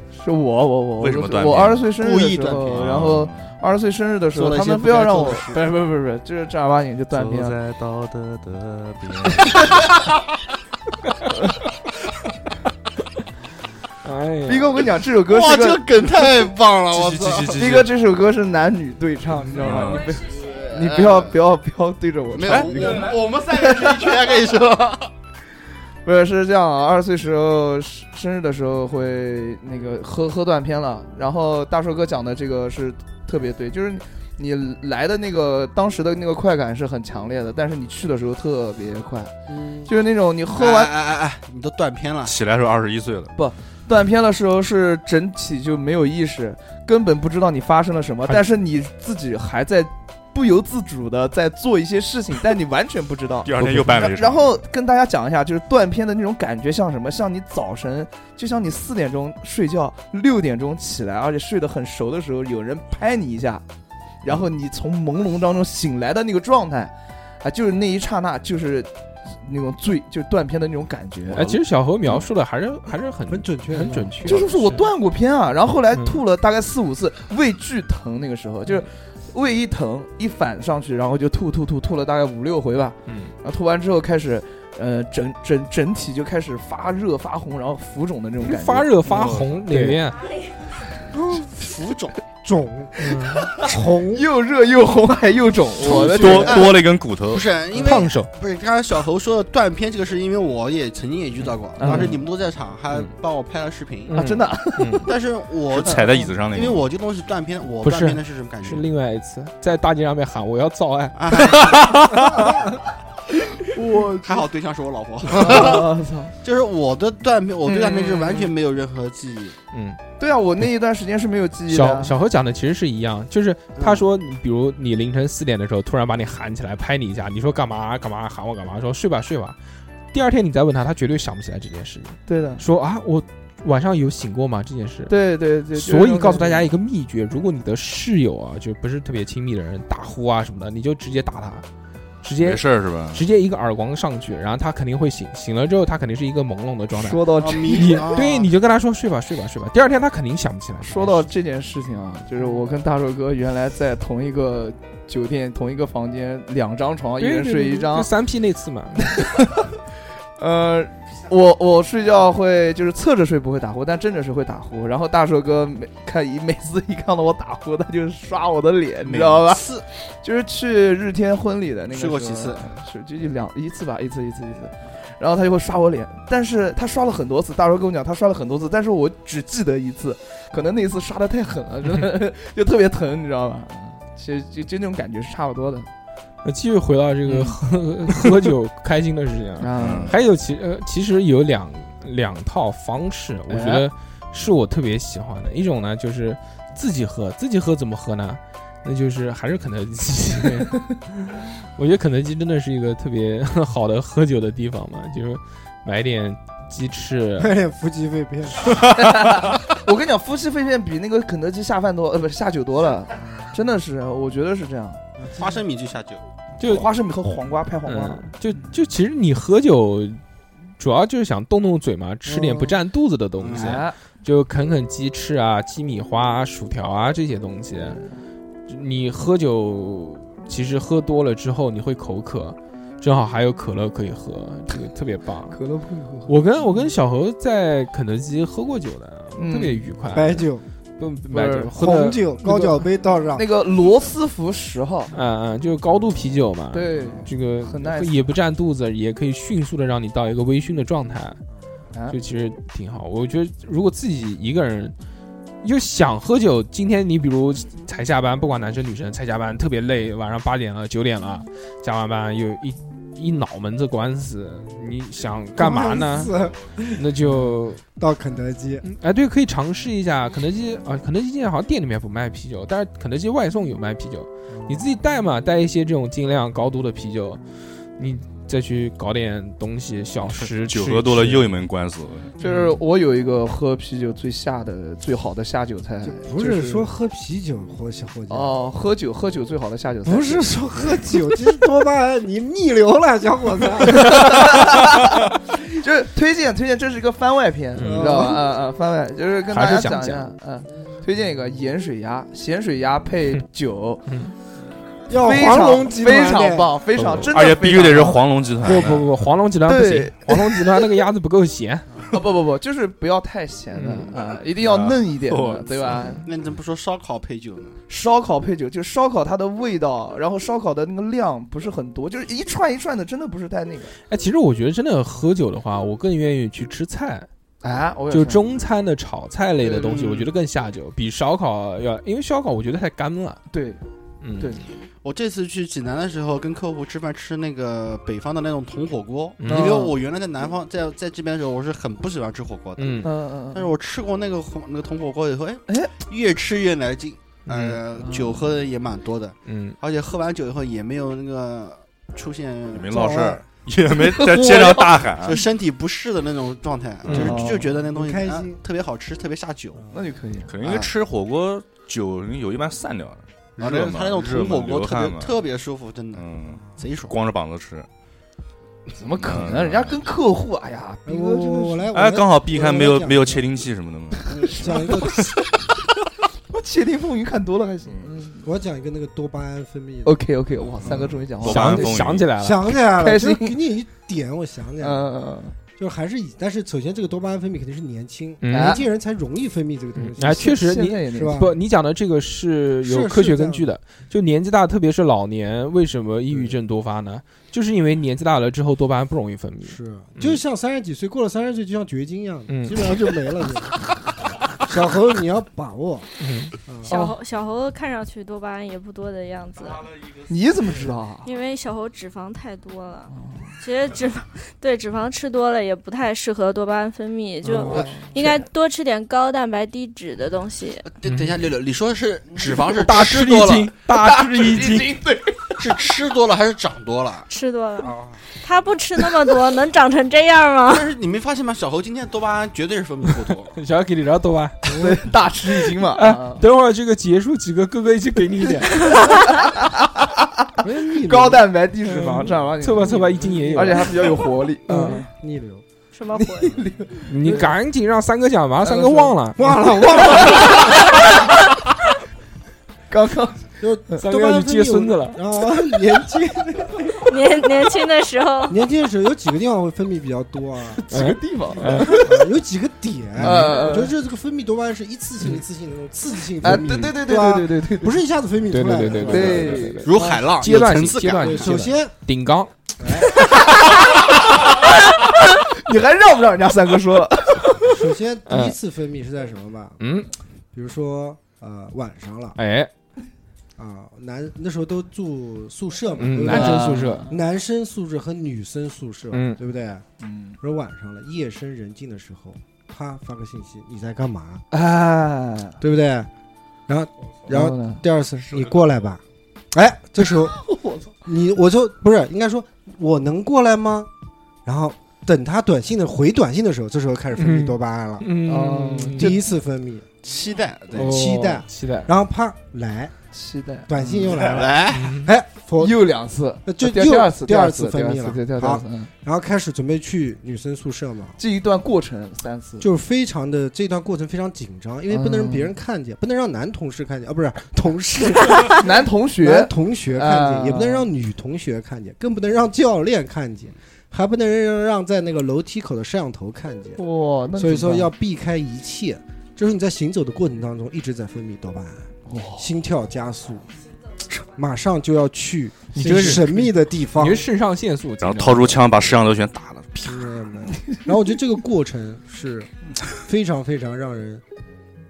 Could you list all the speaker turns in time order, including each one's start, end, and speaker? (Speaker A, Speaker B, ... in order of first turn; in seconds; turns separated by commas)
Speaker A: 0.1-7.6, Speaker B: 1.0-1.9, Speaker C: 1.9-3.0, Speaker B: 2.7-3.5, Speaker C: 4.3-5.7, Speaker B: 7.1-9.8, Speaker D: 14.0-14.8, Speaker A: 14.5-15.9, Speaker C: 15.2-17.6, Speaker B: 16.9-17.9, Speaker A: 17.6-24.1, Speaker B: 19.6-20.1, Speaker C: 19.8-21.3, Speaker C: 22.3-25.1, Speaker B: 22.5-23.0, Speaker A: 26.0-39.3, Speaker E: 39.5-39.9, Speaker A: 39.9-40.9, Speaker C: 40.5-42.4, Speaker B: 42.2-43.3, Speaker A: 43.4-63.6, Speaker B: 53.4-54.5, Speaker A: 64.2-71.6, Speaker D: 71.3-74.9, Speaker E: 73.3-74.5, Speaker A: 74.2-89.0, Speaker D: 75.9-76.2, Speaker D: 83.1-83.3, Speaker D: 88.4-90.3, Speaker B: 89.1-89.6, Speaker A: 89.7-90.0, Speaker E: 91.1-91.6, Speaker C: 91.3-92.2, Speaker E: 92.4-94.2, Speaker D: 93.0-93.5, Speaker A: 93.2-96.7, Speaker B: 95.8-97.5, Speaker C: 95.9-104.2, Speaker D: 97.8-98.3, Speaker A: 101.8-102.2, Speaker D: 101.8-102.2, Speaker D: 104.1-105.1, Speaker A: 104.2-105.1, Speaker C: 105.0-108.9, Speaker B: 105.7-106.9, Speaker A: 105.9-106.4, Speaker D: 107.8-111.6, Speaker C: 111.2-112.0, Speaker B: 111.6-112.4, Speaker A: 113.8-114.4, Speaker C: 114.2-119.6, Speaker A: 115.3-116.3, Speaker A: 117.7-118.5, Speaker D: 119.7-120.0, Speaker A: 120.2-122.1, Speaker D: 121.7-129.6, Speaker C: 123.8-124.0, Speaker D: 130.1-135.1, Speaker A: 132.3-132.6, Speaker A: 135.1-136.7, Speaker D: 135.7-141.7, Speaker D: 142.2-151.3, Speaker B: 142.4-143.2, Speaker A: 146.9-148.1, Speaker C: 147.3-148.5, Speaker A: 150.8-158.1, Speaker D: 157.2-159.3, Speaker A: 159.2-159.6, Speaker A: 160.4-185.9, Speaker C: 169.0-169.9, Speaker C: 171.9-172.7, Speaker D: 186.4-207.5, Speaker A: 187.2-187.6, Speaker A: 189.6-190.2, Speaker B: 189.8-190.2, Speaker A: 193.5-193.9, Speaker E: 207.4-208.7, Speaker A: 208.8-215.0, Speaker E: 215.2-215.6, Speaker C: 215.3-216.2, Speaker D: 216.6-216.9, Speaker A: 216.6-218.7, Speaker D: 217.9-220.2, Speaker D: 220.8-228.0, Speaker E: 222.3-222.8, Speaker C: 223.4-223.8, Speaker A: 223.5-224.0, Speaker A: 227.8-228.2, Speaker D: 228.7-235.6, Speaker A: 235.5-236.9, Speaker D: 236.3-240.5, Speaker A: 239.3-239.9, Speaker E: 240.1-240.7, Speaker D: 241.0-242.8, Speaker A: 241.3-241.8, Speaker E: 241.8-243.4, Speaker A: 243.3-245.1, Speaker D: 245.1-251.4, Speaker A: 246.7-248.2, Speaker A: 251.9-252.2, Speaker D: 252.1-254.9, Speaker D: 255.6-266.4, Speaker E: 265.6-268.8, Speaker D: 266.9-267.8, Speaker D: 268.8-277.4, Speaker E: 274.5-274.9, Speaker D: 278.0-281.6, Speaker B: 280.4-282.4, Speaker A: 282.4-286.9, Speaker E: 286.0-288.5, Speaker A: 288.3-291.0, Speaker E: 290.1-294.6, Speaker A: 293.9-304.0, Speaker D: 297.8-298.3, Speaker E: 297.8-298.4, Speaker D: 299.5-300.3, Speaker D: 304.1-304.4, Speaker E: 305.1-306.7, Speaker A: 305.1-308.2, Speaker D: 307.0-307.4, Speaker B: 307.3-309.1, Speaker D: 308.6-312.1, Speaker A: 309.7-310.9, Speaker A: 312.1-316.2, Speaker D: 313.7-314.1, Speaker B: 314.6-316.0, Speaker C: 316.2-317.8, Speaker A: 317.9-324.0, Speaker D: 324.1-327.3, Speaker A: 327.6-328.6, Speaker D: 328.1-333.4, Speaker A: 329.6-330.3, Speaker A: 333.5-333.8, Speaker D: 334.2-334.6, Speaker A: 334.4-334.7, Speaker C: 335.0-353.0, Speaker D: 339.4-339.8, Speaker A: 339.5-339.9, Speaker D: 342.8-343.1, Speaker A: 343.0-343.7, Speaker A: 345.7-345.9, Speaker D: 347.5-347.8, Speaker A: 348.0-348.4, Speaker D: 349.5-349.8, Speaker B: 352.7-355.4, Speaker E: 352.9-353.4, Speaker A: 354.1-354.9, Speaker C: 354.3-359.9, Speaker D: 357.1-357.4, Speaker A: 357.1-357.7, Speaker E: 357.6-358.6, Speaker A: 359.9-360.9, Speaker B: 360.5-365.4, Speaker C: 363.6-367.2, Speaker B: 366.1-367.9, Speaker A: 369.0-371.9, Speaker B: 369.2-370.0, Speaker E: 371.1-373.5, Speaker B: 371.9-374.5, Speaker E: 374.6-375.3, Speaker A: 374.6-375.3, Speaker A: 376.5-378.5, Speaker E: 378.4-380.2, Speaker A: 380.0-382.0, Speaker E: 380.8-381.2, Speaker B: 380.9-382.3, Speaker D: 381.4-382.8, Speaker E: 382.3-385.1, Speaker A: 382.9-383.6, Speaker A: 384.8-385.6, Speaker E: 385.8-391.6, Speaker D: 388.4-388.8, Speaker A: 388.5-388.9, Speaker D: 390.0-400.4, Speaker A: 390.2-391.5, Speaker E: 392.8-393.7, Speaker E: 396.3-396.6, Speaker E: 399.6-406.1, Speaker D: 402.5-402.9, Speaker D: 406.2-406.6, Speaker E: 406.7-407.0, Speaker F: 406.9-409.9, Speaker A: 406.9-407.2, Speaker A: 410.3-411.3, Speaker F: 411.2-420.9, Speaker A: 413.1-413.5, Speaker E: 417.4-417.9, Speaker A: 417.5-418.4, Speaker C: 420.9-423.8, Speaker D: 421.1-421.4, Speaker D: 422.4-425.0, Speaker A: 423.9-425.8, Speaker C: 425.6-427.3, Speaker F: 427.3-430.9, Speaker E: 427.8-428.2, Speaker C: 430.7-433.6, Speaker D: 433.5-434.6, Speaker E: 434.7-435.1, Speaker A: 434.7-436.4, Speaker D: 435.9-438.9, Speaker A: 438.6-445.1, Speaker E: 440.6-441.5, Speaker D: 441.9-444.1, Speaker E: 443.3-443.7, Speaker E: 444.7-445.6, Speaker F: 445.9-446.6, Speaker A: 446.1-447.5, Speaker D: 447.1-449.5, Speaker A: 448.6-451.0, Speaker E: 449.4-450.9, Speaker A: 452.9-454.0, Speaker E: 453.6-457.1, Speaker D: 454.0-455.2, Speaker F: 457.0-458.6, Speaker E: 458.5-460.8, Speaker A: 460.7-462.3, Speaker D: 460.9-462.0, Speaker E: 461.9-470.1, Speaker D: 463.2-463.6, Speaker A: 463.2-463.9, Speaker A: 466.4-468.0, Speaker D: 466.6-466.9, Speaker D: 468.5-472.5, Speaker A: 469.0-470.2, Speaker C: 469.8-471.6, Speaker E: 471.2-471.9, Speaker E: 472.8-473.2, Speaker A: 473.2-477.9, Speaker E: 477.7-479.8, Speaker D: 478.3-478.6, Speaker D: 479.8-480.1, Speaker E: 480.5-482.4, Speaker D: 482.4-482.7, Speaker E: 483.6-489.9, Speaker D: 486.0-487.1, Speaker A: 486.2-487.2, Speaker D: 489.1-489.4, Speaker A: 490.0-490.4, Speaker E: 490.4-494.4, Speaker A: 494.5-495.6, Speaker E: 495.6-496.1, Speaker E: 496.7-499.0, Speaker A: 497.3-497.9, Speaker E: 499.5-500.4, Speaker A: 500.1-500.9, Speaker E: 501.0-503.9, Speaker E: 504.5-508.1, Speaker D: 507.2-509.1, Speaker A: 508.2-509.3, Speaker E: 508.9-509.9, Speaker C: 510.0-511.0, Speaker D: 510.8-511.9, Speaker E: 510.8-512.9, Speaker A: 513.1-514.3, Speaker E: 513.7-515.8, Speaker C: 514.1-515.0, Speaker D: 514.7-515.1, Speaker A: 515.6-518.9, Speaker E: 516.5-521.2, Speaker A: 521.2-522.7, Speaker E: 522.6-536.8, Speaker A: 524.9-525.5, Speaker A: 528.5-530.9, Speaker A: 536.8-537.9, Speaker E: 537.4-543.5, Speaker A: 542.1-542.5, Speaker E: 544.2-547.3, Speaker D: 545.7-549.0, Speaker B: 548.0-550.1, Speaker E: 549.9-554.2